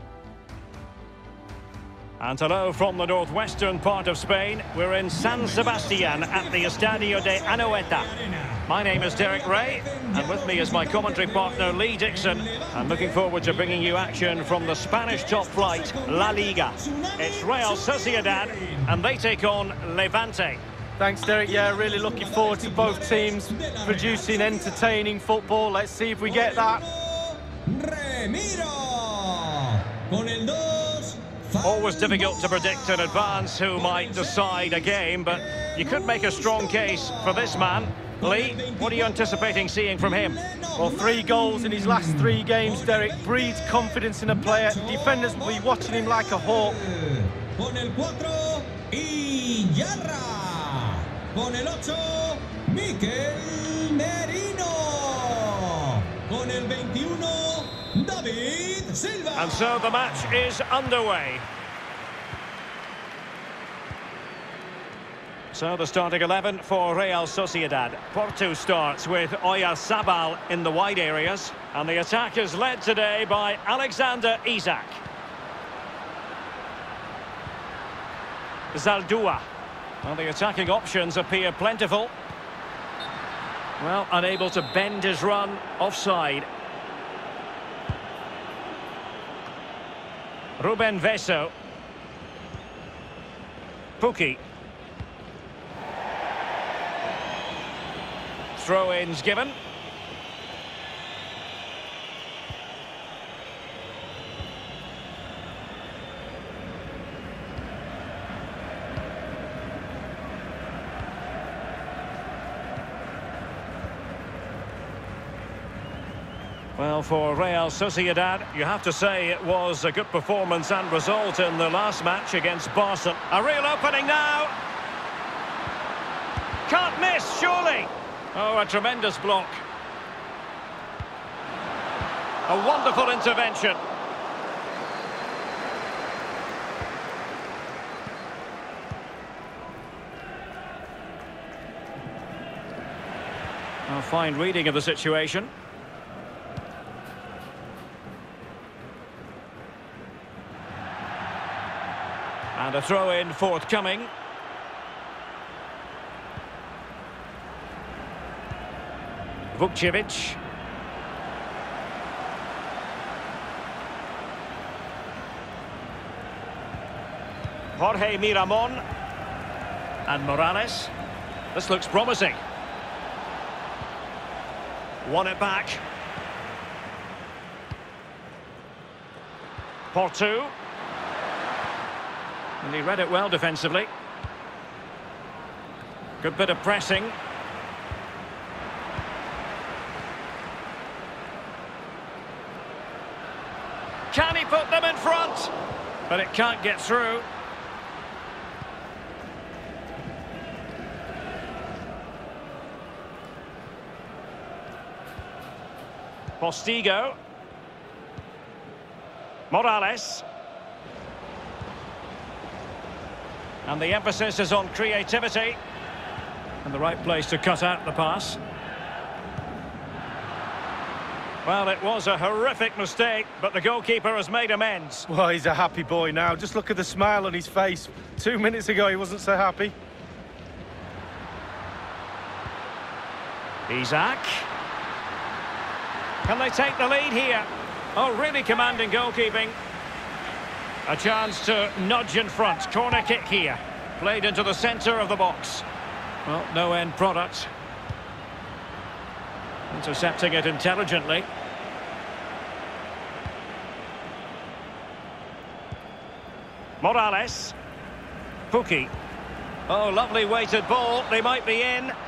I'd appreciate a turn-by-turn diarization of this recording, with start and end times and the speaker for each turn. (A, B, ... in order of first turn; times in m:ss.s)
0:02.2-0:08.1 A
0:05.1-0:19.0 B
0:08.7-0:20.6 A
0:21.0-0:26.8 C
0:21.2-0:24.9 B
0:26.2-1:00.5 B
0:31.6-0:40.4 A
0:40.8-0:46.8 C
0:59.4-1:01.4 A
1:05.5-1:15.0 A
1:18.7-1:19.4 A
1:20.0-1:22.1 A
1:23.8-1:26.5 A
1:30.6-1:31.5 A
1:34.0-1:34.4 A
1:38.6-1:39.6 A
1:56.8-2:04.6 A
2:06.7-2:09.6 A
2:12.5-2:13.8 A
2:23.9-2:25.5 A
2:32.6-2:34.1 A
2:39.5-2:40.4 A
2:47.8-2:48.8 A
2:50.1-2:50.9 A
2:51.5-2:52.4 A
2:55.0-2:55.8 A
2:59.9-3:00.5 A
3:02.6-3:03.9 A
3:06.2-3:07.2 A
3:14.1-3:15.5 A
3:16.1-3:17.3 A
3:26.4-3:27.2 A
3:29.5-3:30.2 A
3:33.6-3:35.6 A
3:36.6-3:38.4 A
3:41.4-3:45.1 A
3:45.1-3:49.7 C
3:53.7-3:54.5 A
3:56.2-3:59.6 A
4:00.9-4:05.6 A
4:06.3-4:07.5 A
4:09.7-4:11.3 A
4:16.8-4:17.6 A
4:18.5-4:18.9 A
4:19.7-4:21.9 A